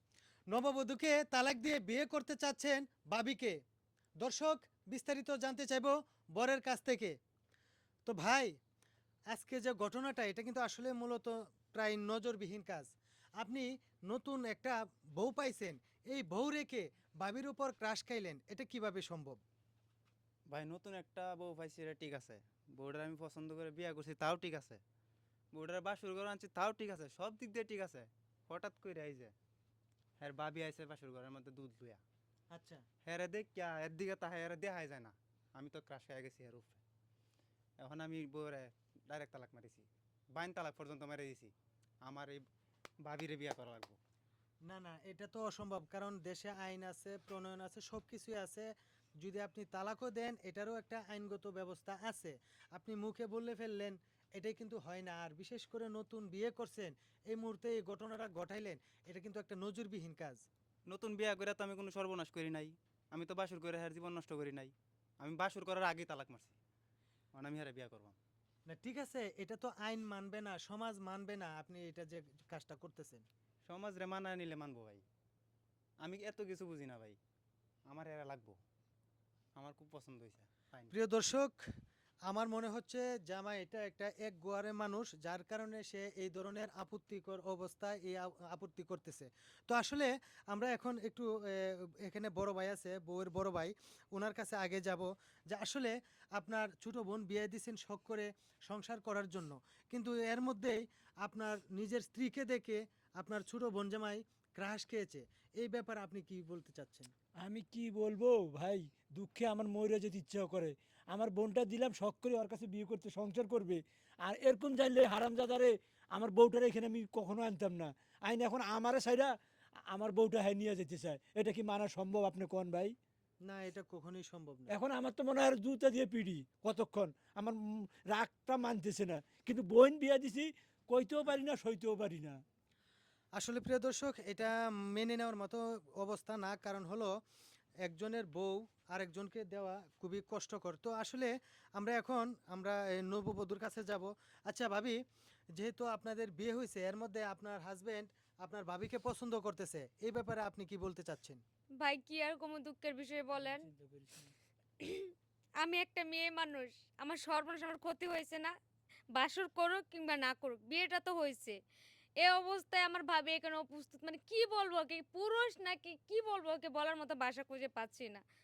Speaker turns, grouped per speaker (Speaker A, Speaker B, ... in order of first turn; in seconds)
Speaker A: 0.5-3.6, 4.2-7.2, 8.1-8.5, 9.3-19.4, 32.5-32.8, 44.7-48.7, 49.2-60.4, 68.7-73.3, 80.9-81.6, 82.3-107.1, 123.5-124.7, 133.4-137.1, 137.8-145.0, 145.6-151.4
Speaker B: 20.5-24.8, 25.5-29.3, 30.2-32.0, 33.0-36.8, 37.8-41.5, 42.0-42.4, 43.0-44.0, 60.9-66.5, 67.3-68.2, 73.7-75.0, 76.0-77.2, 77.9-78.6, 79.6-80.9
Speaker C: 107.4-119.3, 119.9-122.9, 124.7-132.4, 153.4-154.3
Speaker D: 151.8-153.7, 154.8-158.5, 159.2-161.6, 162.2-168.2